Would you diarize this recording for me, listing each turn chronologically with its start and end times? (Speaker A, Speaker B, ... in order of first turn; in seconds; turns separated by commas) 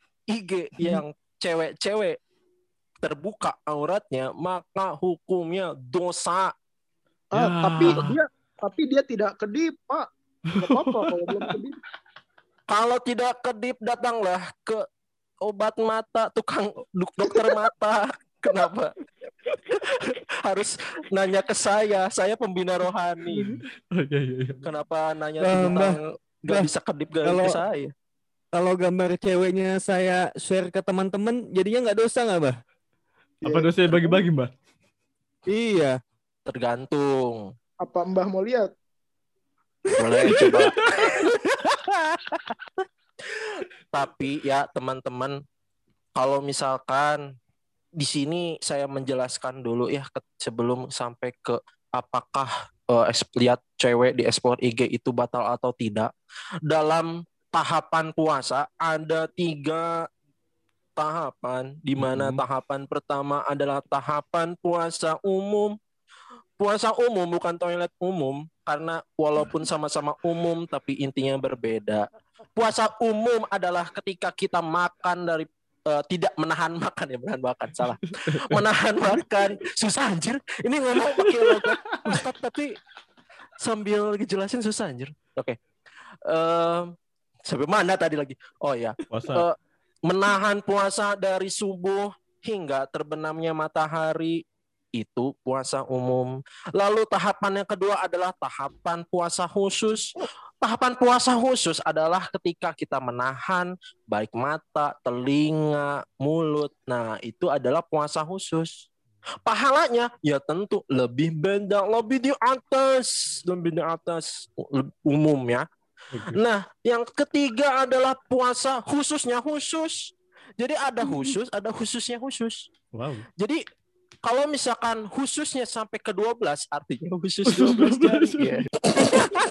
Speaker A: 0.3-2.2, Speaker A: 3.0-6.5, Speaker B: 7.3-10.1, Speaker C: 7.3-8.1, Speaker B: 10.6-11.8, Speaker C: 10.6-11.5, Speaker A: 12.7-14.8, Speaker A: 15.4-18.9, Speaker A: 19.7-23.5, Speaker B: 23.3-23.6, Speaker C: 23.9-24.6, Speaker A: 24.6-27.9, Speaker D: 25.4-26.0, Speaker D: 27.2-27.5, Speaker D: 28.5-32.6, Speaker B: 33.4-34.3, Speaker C: 33.4-34.5, Speaker D: 35.5-36.0, Speaker A: 36.5-37.4, Speaker B: 37.8-38.7, Speaker A: 40.0-40.8, Speaker D: 40.2-40.5, Speaker A: 43.9-45.4, Speaker A: 46.1-47.2, Speaker A: 48.0-56.1, Speaker A: 56.6-60.0, Speaker A: 61.0-65.7, Speaker C: 62.0-62.4, Speaker A: 66.6-82.8, Speaker C: 78.3-78.6, Speaker C: 81.0-82.3, Speaker A: 83.6-85.6, Speaker A: 86.3-86.9, Speaker A: 87.5-89.5, Speaker C: 89.1-89.4, Speaker A: 90.0-94.4, Speaker A: 94.9-100.1, Speaker A: 100.6-108.8, Speaker A: 109.4-115.6, Speaker C: 116.1-116.4, Speaker A: 116.3-122.6, Speaker C: 122.9-123.2, Speaker A: 124.2-129.1, Speaker C: 127.5-129.2